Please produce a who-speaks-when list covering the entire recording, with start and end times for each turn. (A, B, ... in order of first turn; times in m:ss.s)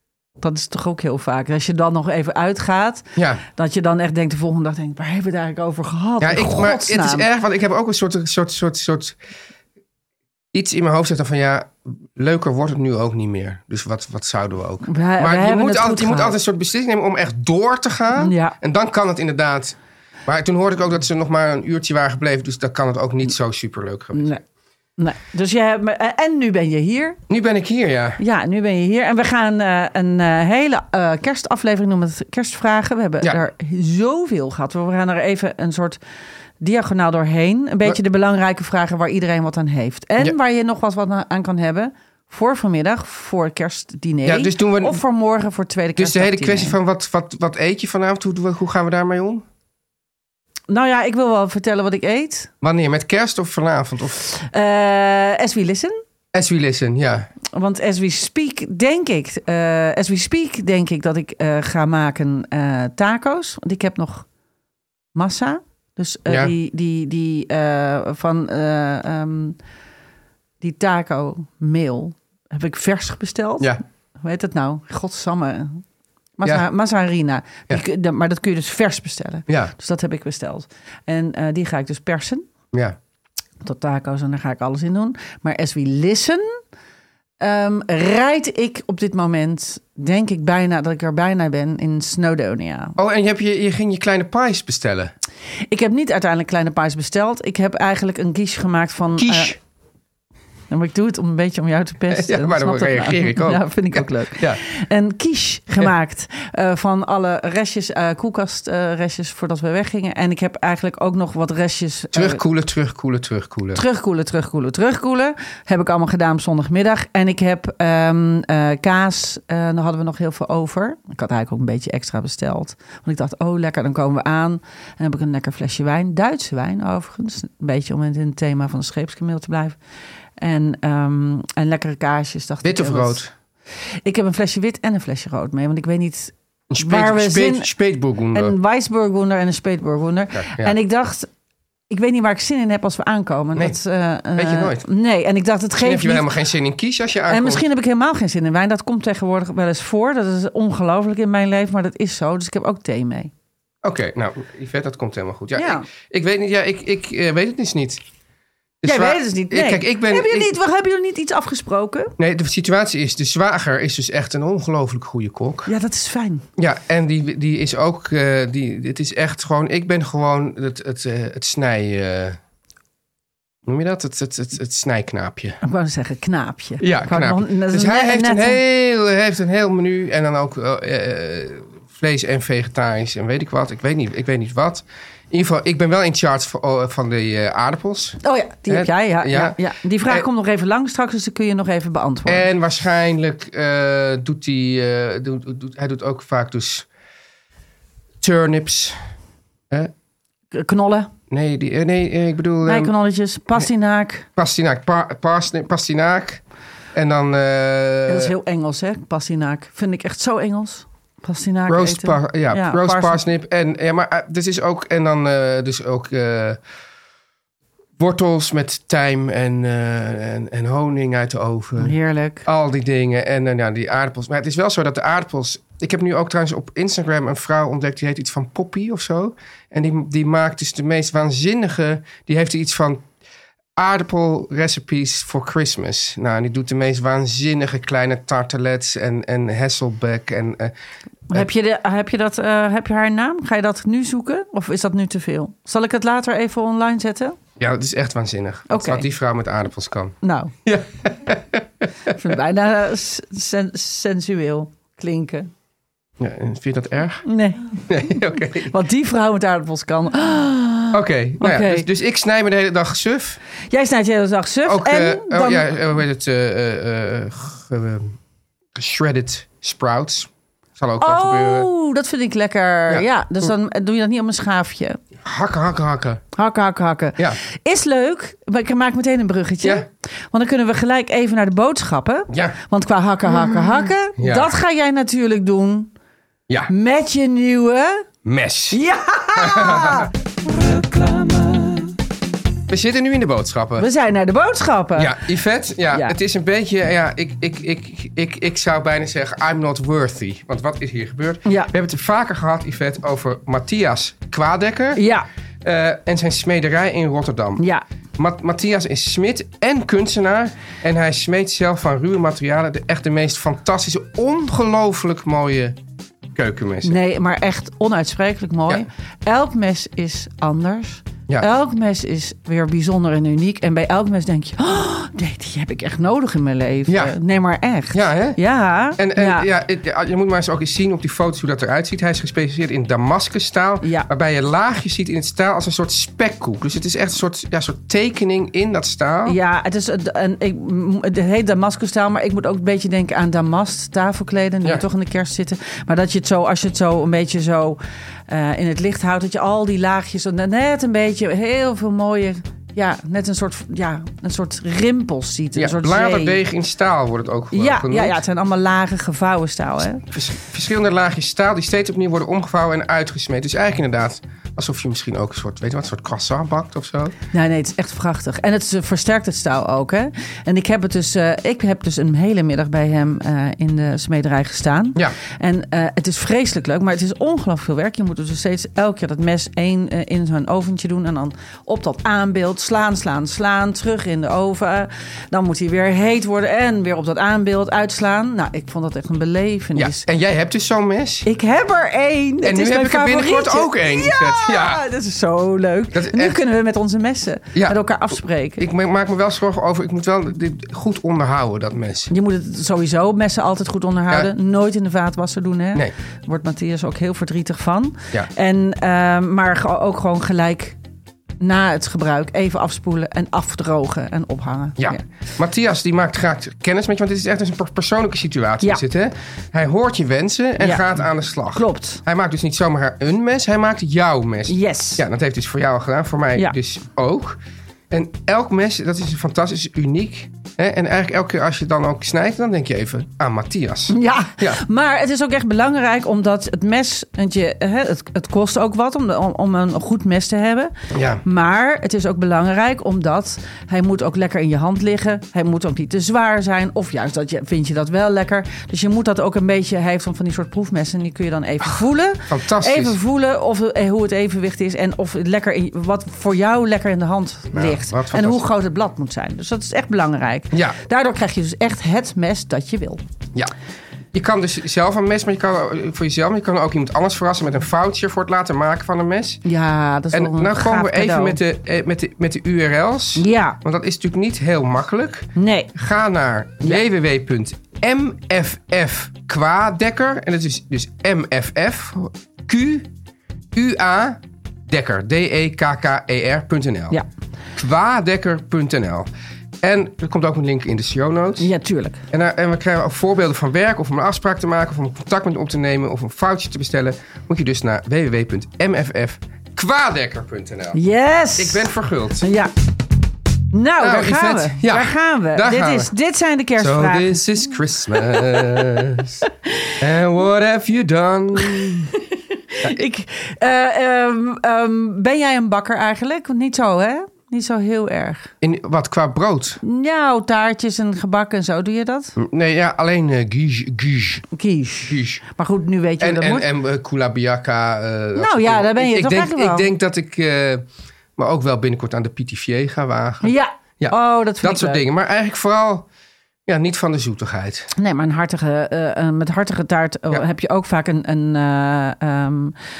0:00.4-0:07.2 A
0:03.2-0:03.4 B
0:06.2-0:09.2 B
0:10.5-0:24.4 B
0:14.8-0:16.4 A
0:18.2-0:18.6 A
0:24.1-0:24.4 A
0:25.0-0:27.2 A
0:27.3-0:28.2 B
0:28.2-0:36.0 A
0:36.6-0:46.8 A
0:44.2-0:45.0 B
0:46.0-0:49.4 B
0:50.7-0:52.5 A
0:52.6-0:54.2 B
0:54.3-0:56.0 A
0:56.3-0:57.3 B
0:57.5-1:04.2 A
1:05.1-1:09.6 A
1:06.3-1:06.5 B
1:10.6-1:15.8 A
1:16.4-1:22.5 A
1:19.5-1:19.7 B
1:23.6-1:26.6 A
1:27.4-1:33.0 A
1:33.0-1:35.1 B
1:35.7-1:39.6 A
1:39.2-1:39.6 B
1:40.7-1:52.4 A
1:42.1-1:44.6 B
1:52.1-1:53.8 B
1:53.7-2:09.8 A
2:10.4-2:13.2 A
2:12.6-2:13.3 B
2:14.0-2:17.7 A
2:16.7-2:18.6 B
2:18.3-2:21.3 A
2:20.4-2:20.7 B
2:21.9-2:26.3 A
2:24.4-2:24.8 B
2:25.8-2:27.6 B
2:27.3-2:33.3 A
2:33.8-2:38.0 B
2:35.6-2:35.8 A
2:38.8-2:40.5 B
2:38.8-2:42.1 A
2:42.2-2:45.7 B
2:45.6-2:46.4 A
2:46.6-2:52.4 B
2:53.6-2:55.6 B
2:55.6-2:58.6 A
2:56.8-3:10.2 B
3:08.2-3:12.5 A
3:12.2-3:16.9 B
3:18.2-3:19.0 B
3:20.5-3:21.1 A
3:21.3-3:22.9 B
3:22.6-3:24.3 A
3:24.4-3:26.4 B
3:26.9-3:28.3 B
3:28.1-3:33.2 A
3:31.7-3:36.6 B
3:38.0-3:53.0 B
3:41.8-3:42.4 A
3:53.8-4:00.7 B
4:01.3-4:07.4 A
4:07.6-4:12.1 B
4:08.7-4:09.0 A
4:10.2-4:10.5 A
4:12.1-4:15.5 A
4:16.2-4:17.2 B
4:17.2-4:17.8 A
4:17.9-4:18.7 B
4:18.7-4:21.8 A
4:20.9-4:23.4 B
4:23.7-4:25.6 A
4:24.6-4:28.2 B
4:28.7-4:31.7 B
4:31.0-4:35.0 A
4:35.2-4:36.2 B
4:36.3-4:45.9 A
4:42.3-4:42.5 B
4:44.2-4:44.5 B
4:46.7-4:48.0 A
4:48.2-4:48.8 B
4:48.7-4:51.9 A
4:49.3-4:50.1 B
4:52.7-4:53.9 B
4:53.8-4:55.2 A
4:55.0-5:05.0 B
5:01.4-5:01.7 A
5:04.9-5:05.3 A
5:05.6-5:07.6 B
5:07.6-5:07.8 A
5:08.2-5:15.8 B
5:16.3-5:17.0 B
5:16.8-5:29.4 A
5:26.9-5:27.1 B
5:27.9-5:28.4 B
5:29.0-5:39.4 B
5:33.8-5:34.1 A
5:39.2-5:56.4 A
5:55.6-5:58.2 B
5:57.5-6:00.1 A
6:00.1-6:07.1 B
6:07.3-6:30.0 A
6:29.8-6:31.3 B
6:31.2-6:38.6 A
6:32.4-6:34.8 B
6:35.9-6:36.4 B
6:38.6-6:42.1 B
6:42.1-6:50.8 A
6:51.4-6:55.0 A
6:54.8-7:07.4 B
7:00.6-7:00.9 A
7:01.5-7:02.0 A
7:04.5-7:05.0 A
7:07.9-7:14.6 B
7:13.9-7:43.0 A
7:20.9-7:21.2 B
7:32.3-7:33.0 B
7:37.5-7:38.4 B
7:40.5-7:40.8 B
7:44.1-7:49.4 B
7:49.4-7:51.4 A
7:50.1-8:02.9 B
7:53.2-7:53.6 A
7:55.4-7:55.7 A
8:03.5-8:07.0 B
8:07.6-8:09.1 B
8:09.6-8:11.5 B
8:11.4-8:12.0 A
8:12.1-8:20.8 B
8:20.7-8:22.5 A
8:21.4-8:22.3 B
8:23.5-8:27.2 A
8:23.8-8:25.9 B
8:26.6-8:29.2 B
8:27.9-8:29.7 A
8:29.8-8:31.9 B
8:31.4-8:31.7 A
8:32.3-8:38.3 A
8:38.4-8:39.6 B
8:39.6-8:42.2 A
8:42.2-8:44.2 B
8:44.3-8:46.5 A
8:44.8-8:45.2 B
8:46.0-8:50.6 B
8:48.2-8:49.7 A
8:51.2-8:55.9 B
8:53.2-8:54.8 A
8:56.5-8:57.7 B
8:57.7-9:02.6 A